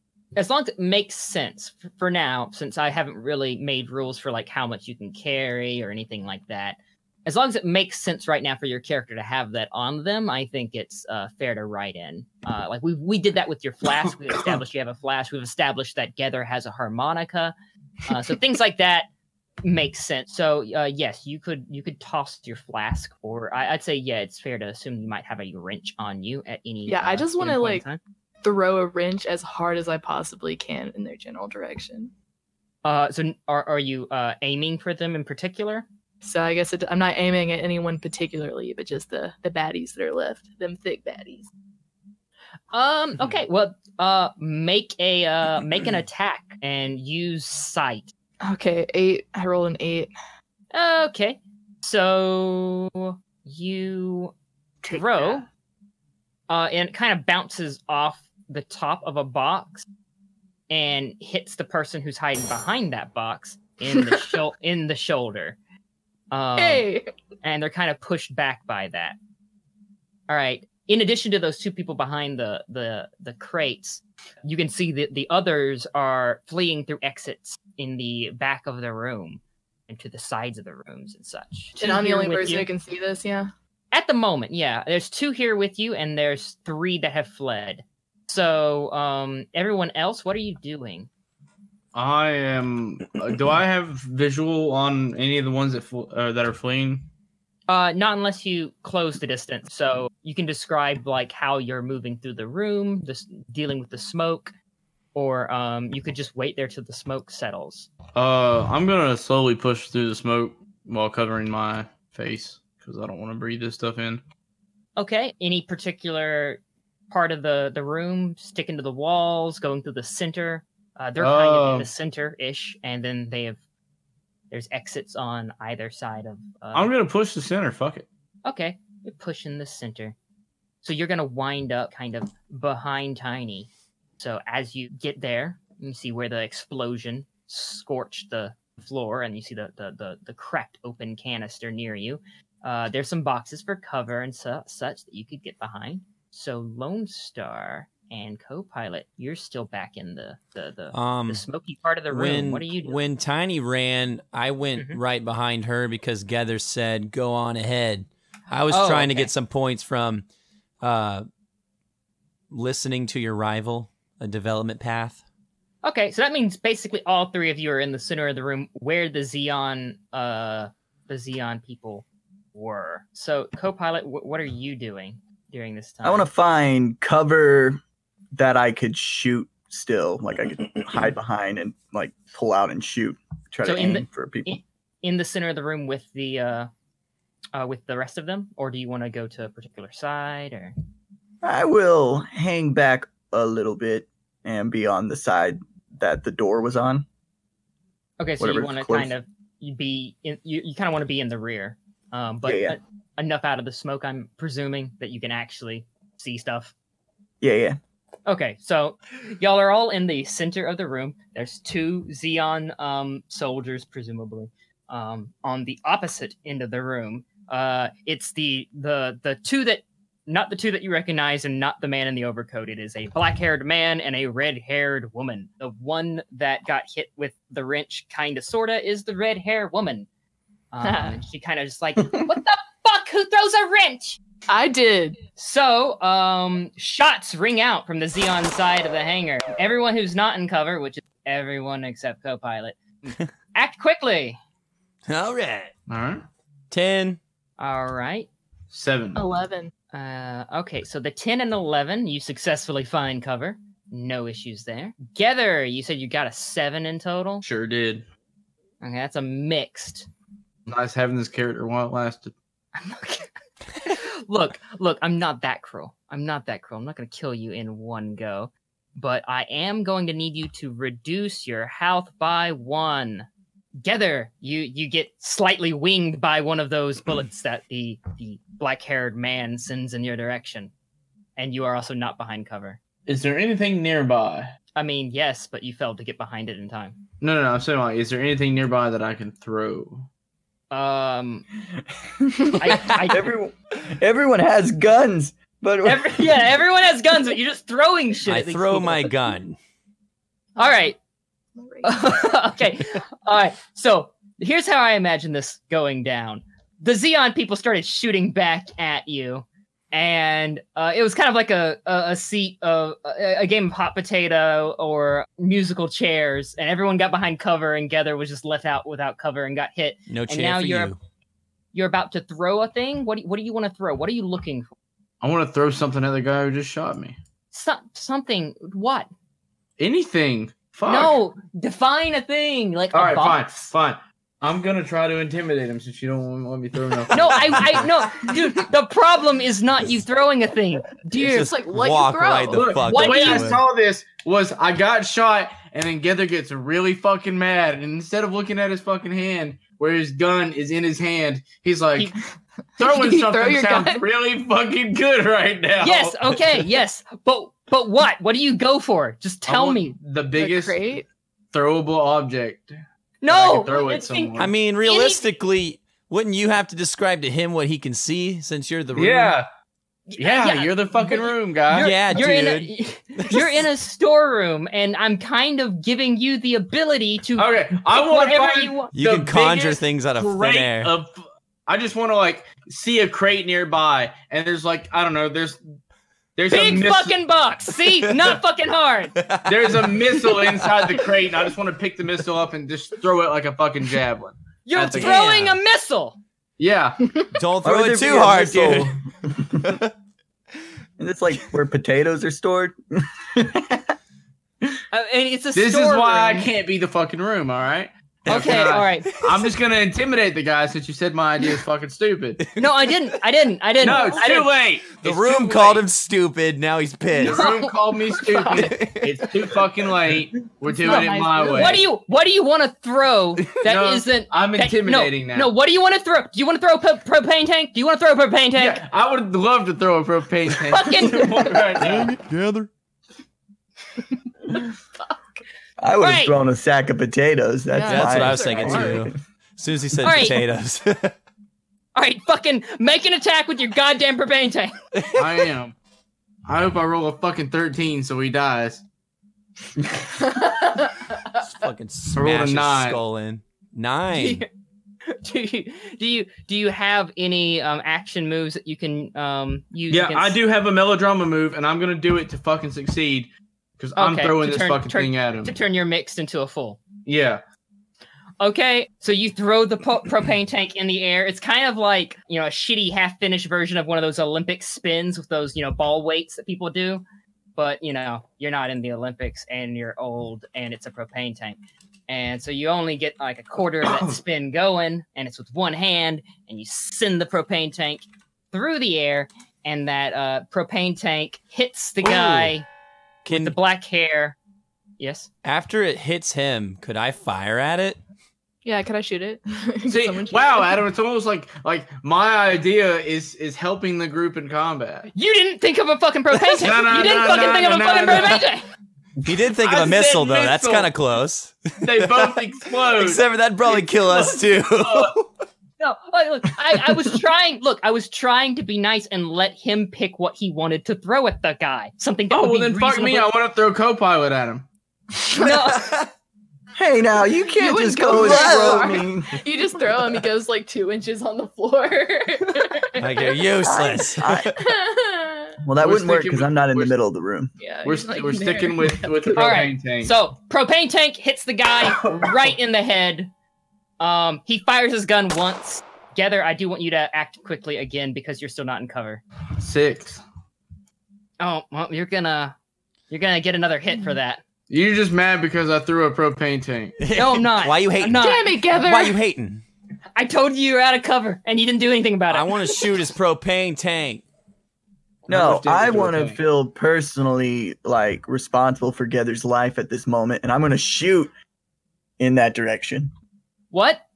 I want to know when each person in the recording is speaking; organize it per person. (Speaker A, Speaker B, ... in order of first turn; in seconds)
Speaker A: 0.4-17.5, 18.1-19.1, 19.6-28.0, 32.8-35.9, 42.7-48.1, 50.7-54.4, 54.9-55.5, 56.5-59.9, 60.7-65.6, 66.3-66.9, 67.4-69.2, 70.3-82.7, 83.9-91.1, 97.7-104.5, 105.2-107.9, 115.0-123.6, 124.5-126.9, 128.4-130.2, 130.8-153.0, 158.7-159.3, 165.8-176.3, 183.6-186.7, 187.5-190.7, 198.2-206.7, 208.3-230.1, 230.7-234.2, 235.4-242.8, 243.5-244.4, 247.6-248.3, 249.9-257.4, 258.8-260.1, 262.8-273.3, 273.8-280.7, 281.4-282.8, 284.8-287.0, 290.7-291.5, 292.6-293.3, 295.8-299.1, 300.6-300.9, 301.8-320.9, 321.7-324.7, 327.5-329.1, 330.9-333.7, 337.1-341.5, 342.9-343.6, 355.8-360.0, 363.2-365.2, 370.1-378.9, 386.5-389.2, 394.7-396.2, 404.9-406.5, 408.3-409.3, 412.6-414.5, 417.2-418.7, 420.8-428.8, 430.7-431.4, 436.0-436.4, 440.0-440.4, 442.0-444.8, 454.1-454.5, 455.1-460.4, 464.0-466.8, 468.4-477.0, 477.6-492.7, 493.3-494.4, 495.0-495.3, 505.1-508.7, 515.8-523.3, 525.3-526.0, 539.4-543.3, 544.0-549.2, 551.4-552.6, 553.1-554.4, 557.1-558.6, 560.2-562.6, 573.7-574.0
Speaker B: 26.9-27.8, 28.4-32.1, 36.2-41.5, 48.4-50.1, 54.8-55.4, 66.6-67.1, 81.8-83.5, 230.8-231.2, 234.5-235.2, 249.2-249.7, 300.6-300.9, 301.6-301.9, 341.2-343.0, 352.8-354.0, 360.4-361.1, 420.7-421.8, 437.7-439.1, 450.2-450.9, 498.6-500.8, 525.3-525.8, 527.5-533.5, 534.5-535.6, 537.6-539.6, 558.1-559.2
Speaker C: 91.9-97.1, 108.2-114.2, 121.2-121.9, 126.7-128.1, 245.9-246.2, 248.7-249.3, 257.4-258.1, 260.7-262.4, 283.1-284.5, 287.2-290.1, 325.2-327.2, 329.8-331.2, 332.9-337.9, 342.5-352.1, 352.8-356.2, 359.5-360.8, 361.5-364.5, 368.9-369.5, 370.2-372.0, 377.4-385.6, 386.4-387.2, 389.4-395.3, 396.6-397.2, 405.5-412.4, 413.8-415.9, 417.1-421.8, 423.6-425.5, 428.6-432.2, 445.1-445.8, 446.5-448.9, 452.1-453.0, 459.9-465.6, 467.1-467.4, 499.9-505.1, 506.4-508.5, 509.6-510.9, 511.8-515.2, 522.3-524.7, 535.8-536.9, 537.9-540.1, 542.0-542.5, 549.6-550.2, 554.7-557.0, 565.3-566.4
Speaker D: 150.9-151.4, 152.1-160.3, 160.8-161.2, 162.5-165.2, 245.1-245.7, 246.7-247.2, 298.3-299.6, 320.1-321.0, 341.2-343.6, 364.4-369.4, 371.8-373.4, 378.9-380.9, 389.2-391.1, 394.9-395.6, 397.4-398.9, 408.3-409.4, 412.4-412.9, 415.0-417.5, 418.5-419.3, 431.8-432.7, 437.9-441.1, 445.0-445.3, 451.4-454.4, 492.0-492.5, 493.2-493.6, 495.4-498.0, 509.2-515.3, 533.0-534.6, 557.0-559.6, 562.3-564.2
Speaker E: 176.0-177.8, 178.3-184.6, 191.4-197.1, 198.4-199.1, 202.4-202.8, 207.4-207.8, 292.2-296.4, 397.6-399.8, 401.0-403.9, 435.8-439.2, 526.8-529.4, 533.6-534.6, 535.6-537.5, 565.3-571.3, 572.2-573.1